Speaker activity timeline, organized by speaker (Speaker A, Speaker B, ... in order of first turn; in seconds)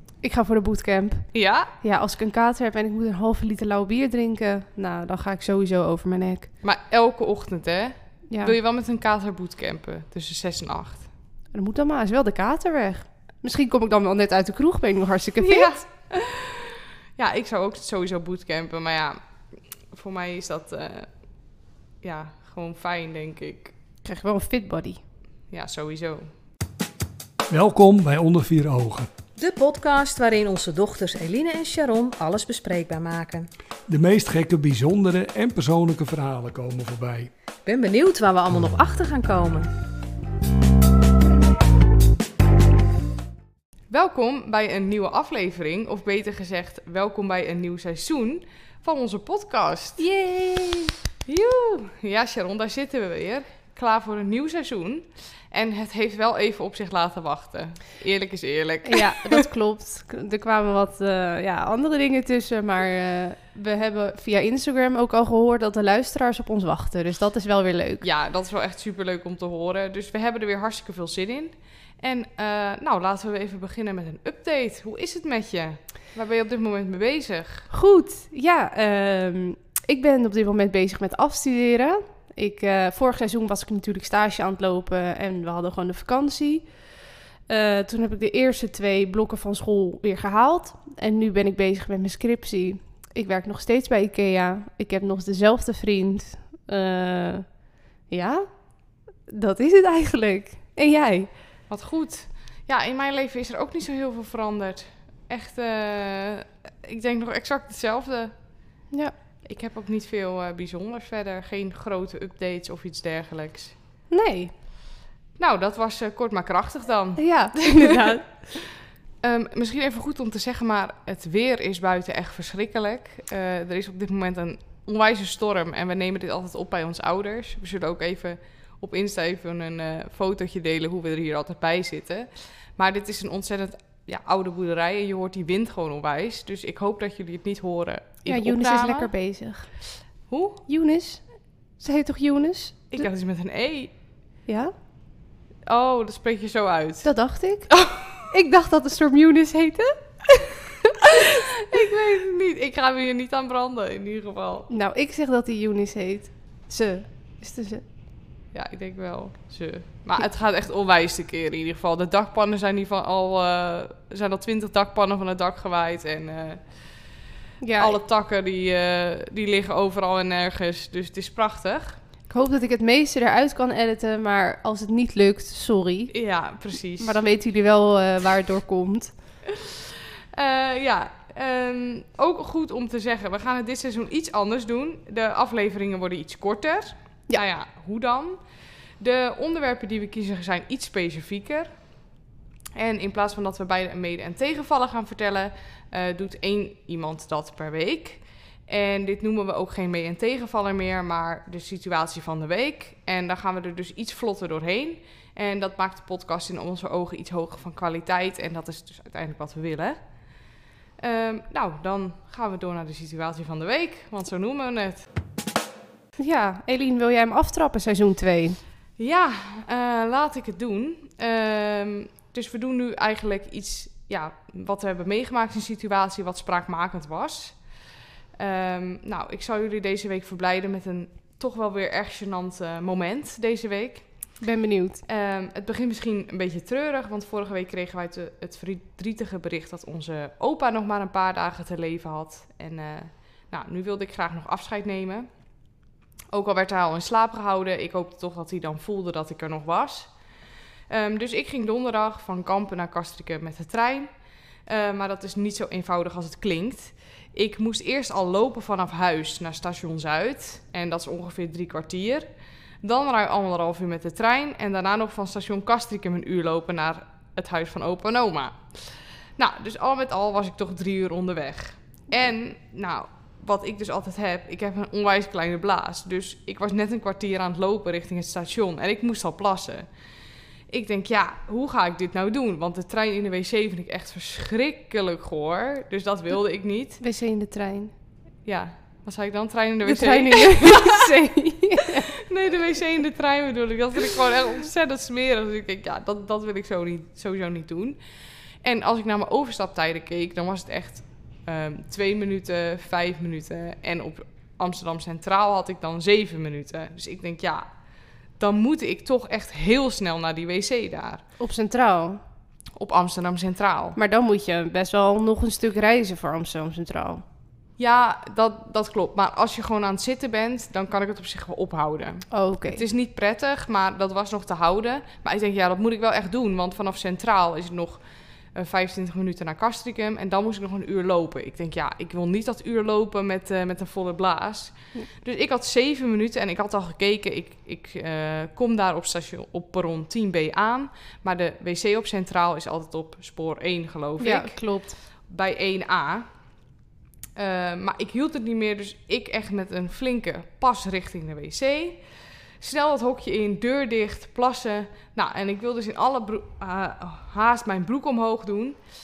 Speaker A: 0.2-6.5, 8.3-8.6, 11.5-15.8, 24.0-25.0, 50.0-51.0, 58.9-68.1, 77.7-86.7, 87.5-97.5, 98.1-98.5, 99.3-101.3, 114.1-114.5, 117.2-118.4, 138.3-139.7, 140.7-141.3, 141.8-143.1, 144.5-144.7, 147.0-150.5, 154.7-157.8, 167.6-168.0, 172.3-176.1, 177.0-179.1, 216.2-218.6, 234.4-235.0, 287.0-287.9, 289.9-292.1, 311.4-312.2, 314.0-317.2, 322.3-322.8, 344.2-345.0
Speaker B: 1.3-1.7, 6.6-11.1, 15.4-19.2, 19.9-21.1, 22.0-23.7, 25.5-26.3, 43.9-50.1, 51.3-59.4, 68.0-77.7, 101.7-108.4, 109.5-113.8, 115.4-118.4, 119.2-139.1, 140.3-140.6, 142.9-143.9, 145.7-147.1, 147.7-148.2, 151.7-154.7, 158.5-166.7, 167.8-172.0, 176.1-177.2, 180.3-188.4, 189.0-191.8, 192.8-210.0, 211.0-215.1, 219.0-227.7, 228.4-234.3, 235.1-245.3, 246.3-250.2, 250.9-254.1, 254.6-262.3, 262.8-279.9, 280.7-287.0, 288.4-291.1, 291.9-298.0, 298.6-307.7, 308.4-311.2, 312.8-314.0, 317.8-328.0, 328.6-344.6, 345.2-346.3, 347.4-352.0, 352.6-358.8
Speaker C: 27.5-29.1, 33.9-37.3
Speaker D: 29.4-33.5, 37.7-39.7